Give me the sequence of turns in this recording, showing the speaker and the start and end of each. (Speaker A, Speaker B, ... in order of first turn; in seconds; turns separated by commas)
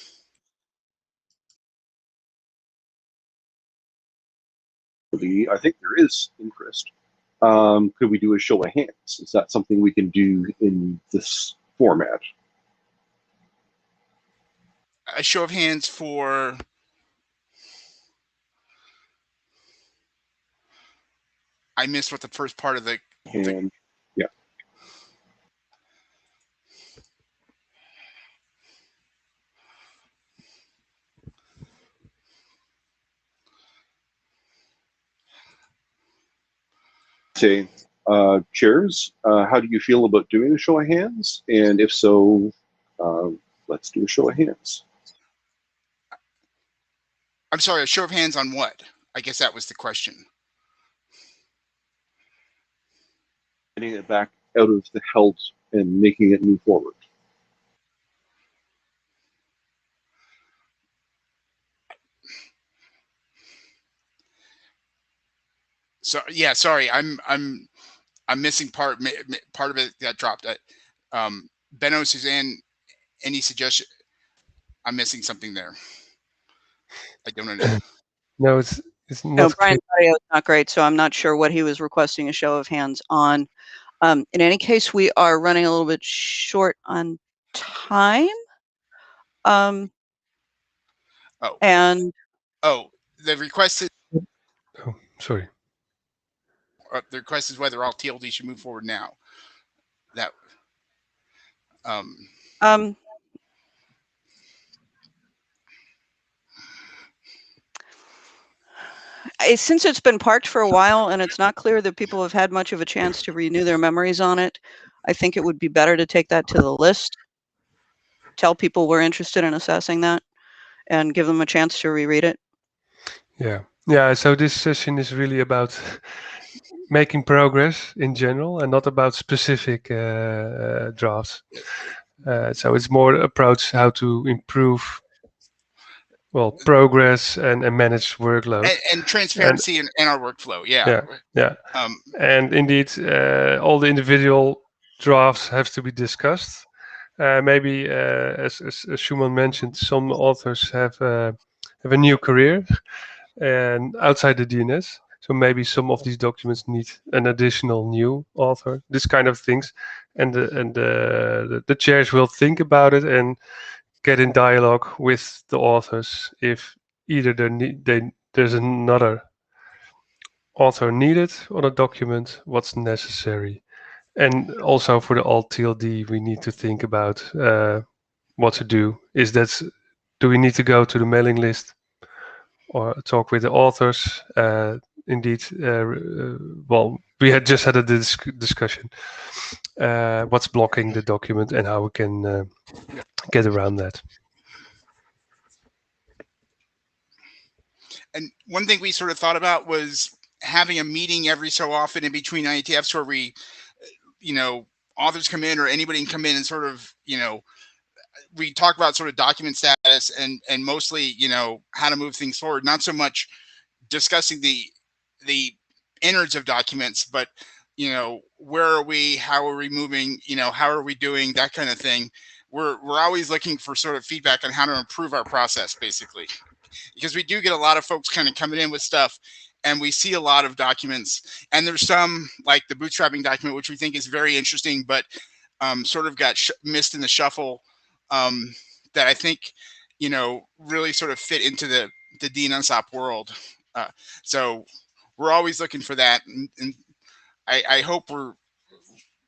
Speaker A: 5.1-6.9, Speaker A: 7.4-12.2, Speaker B: 15.1-16.6, Speaker B: 21.8-23.6, Speaker A: 23.3-24.3, Speaker A: 37.4-44.8, Speaker B: 47.5-50.2, Speaker A: 53.8-57.0, Speaker B: 66.0-67.7, Speaker B: 68.3-70.6, Speaker B: 71.1-72.6, Speaker B: 73.2-73.8, Speaker B: 74.8-75.7, Speaker B: 77.2-77.8, Speaker C: 78.4-79.8, Speaker D: 79.4-83.5, Speaker D: 84.0-88.3, Speaker D: 89.4-89.9, Speaker D: 91.6-92.1, Speaker B: 92.6-93.9, Speaker C: 94.8-95.5, Speaker B: 96.9-99.2, Speaker B: 101.8-102.3, Speaker D: 102.6-103.0, Speaker D: 109.4-117.2, Speaker D: 118.4-120.2, Speaker D: 120.9-122.4, Speaker C: 123.4-126.3, Speaker C: 126.9-131.5, Speaker C: 132.2-135.0, Speaker C: 136.3-138.7, Speaker B: 138.6-141.1, Speaker C: 139.3-139.6, Speaker C: 140.8-163.4, Speaker B: 141.7-142.0, Speaker C: 164.0-169.4, Speaker C: 170.5-182.1, Speaker C: 182.7-194.1, Speaker B: 198.1-203.3, Speaker B: 204.2-207.4, Speaker B: 208.3-213.3, Speaker B: 213.9-214.7, Speaker B: 215.2-226.3, Speaker B: 227.0-235.1, Speaker B: 235.6-244.6, Speaker B: 245.2-246.8, Speaker B: 247.5-248.3